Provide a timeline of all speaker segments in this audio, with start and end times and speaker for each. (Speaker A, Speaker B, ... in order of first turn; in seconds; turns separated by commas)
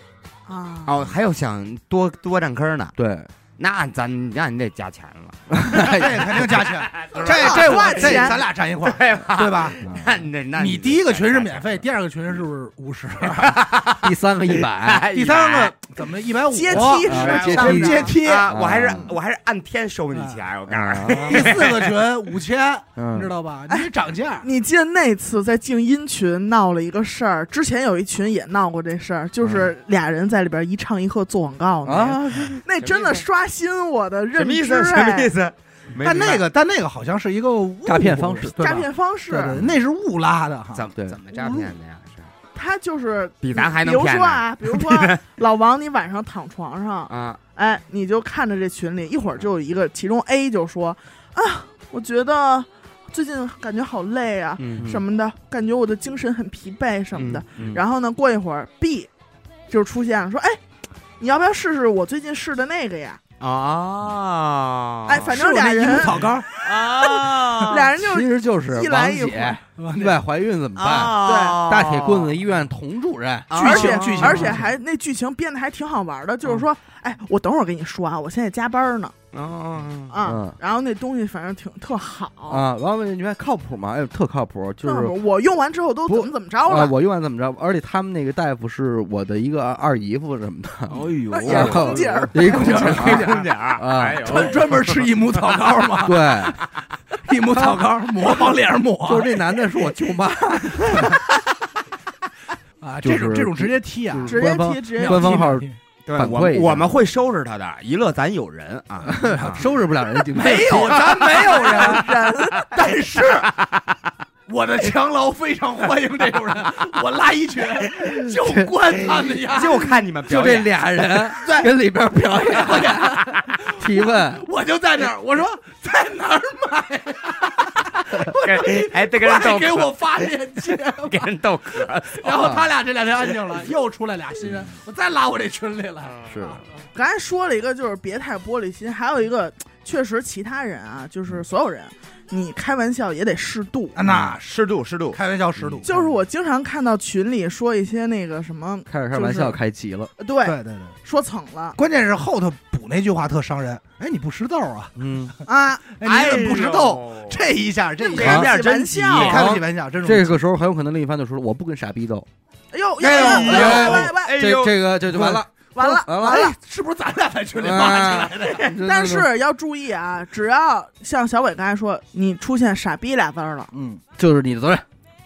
Speaker A: 0.5-1.0, Speaker B: 0.9-3.0, Speaker C: 3.0-3.3, Speaker B: 3.6-11.8, Speaker C: 5.5-6.5, Speaker D: 5.9-9.9, Speaker A: 7.2-8.4, Speaker C: 7.4-8.2, Speaker C: 9.8-10.2, Speaker D: 10.6-13.7, Speaker B: 13.2-16.0, Speaker C: 14.0-15.1, Speaker D: 15.1-19.1, Speaker A: 16.5-18.1, Speaker B: 16.7-22.1, Speaker C: 17.1-19.1, Speaker D: 20.1-20.4, Speaker C: 20.7-21.5, Speaker D: 21.1-24.5, Speaker C: 23.0-23.3, Speaker A: 24.4-35.3, Speaker C: 31.9-32.6, Speaker B: 32.8-33.2, Speaker B: 34.4-36.5, Speaker D: 36.0-41.7, Speaker C: 37.9-38.8, Speaker A: 38.6-39.6, Speaker B: 40.7-42.3, Speaker A: 42.5-59.1, Speaker B: 43.4-45.2, Speaker B: 47.1-47.4, Speaker B: 54.6-54.9, Speaker C: 54.8-55.0, Speaker B: 57.1-57.8, Speaker A: 59.7-60.6, Speaker A: 61.2-63.2, Speaker B: 63.4-65.4, Speaker A: 65.1-69.6, Speaker D: 65.2-66.5, Speaker B: 66.6-67.8, Speaker C: 68.0-73.6, Speaker D: 69.8-70.2, Speaker B: 70.8-72.4, Speaker A: 71.2-71.6, Speaker B: 73.5-74.6, Speaker D: 73.5-74.7, Speaker A: 73.6-79.1, Speaker C: 74.2-74.6, Speaker B: 79.3-80.2, Speaker A: 80.1-82.6, Speaker C: 80.2-80.6, Speaker C: 82.5-85.2, Speaker A: 84.8-86.9, Speaker C: 86.1-94.6, Speaker B: 90.9-95.8, Speaker A: 91.3-92.9, Speaker D: 92.4-93.5, Speaker D: 94.2-96.5, Speaker C: 96.0-96.6, Speaker D: 97.2-99.3, Speaker C: 99.0-101.2, Speaker D: 100.8-101.2, Speaker B: 100.9-101.2, Speaker D: 102.8-104.4, Speaker C: 103.0-106.9, Speaker A: 104.3-105.5, Speaker D: 105.0-105.8, Speaker B: 106.1-109.7, Speaker C: 109.0-111.3, Speaker D: 109.3-109.7, Speaker D: 110.3-112.2, Speaker B: 110.6-112.0, Speaker A: 111.5-112.8, Speaker D: 112.7-113.6, Speaker B: 113.2-113.9, Speaker D: 114.5-120.0, Speaker B: 119.4-121.7, Speaker C: 120.3-124.4, Speaker D: 122.5-131.3, Speaker B: 128.3-130.0, Speaker B: 131.0-132.5, Speaker D: 131.8-136.7, Speaker C: 132.4-132.7, Speaker B: 136.0-136.3, Speaker C: 136.3-136.6, Speaker A: 136.9-144.0, Speaker D: 143.9-144.5, Speaker C: 144.1-144.3, Speaker B: 144.1-145.8, Speaker D: 145.1-146.1, Speaker A: 145.8-149.6, Speaker C: 148.9-150.1, Speaker A: 150.2-151.8, Speaker D: 150.4-150.9, Speaker D: 151.8-160.4, Speaker C: 155.0-155.3, Speaker A: 155.5-155.8, Speaker B: 156.0-157.5, Speaker A: 158.0-159.4, Speaker B: 158.1-159.6, Speaker C: 159.3-162.3, Speaker A: 162.7-164.3, Speaker B: 163.0-164.8, Speaker C: 163.1-166.5, Speaker D: 165.1-165.5, Speaker A: 165.8-166.6, Speaker D: 166.2-168.7, Speaker C: 167.6-169.3, Speaker A: 168.6-173.7, Speaker D: 173.7-174.0, Speaker C: 174.2-174.9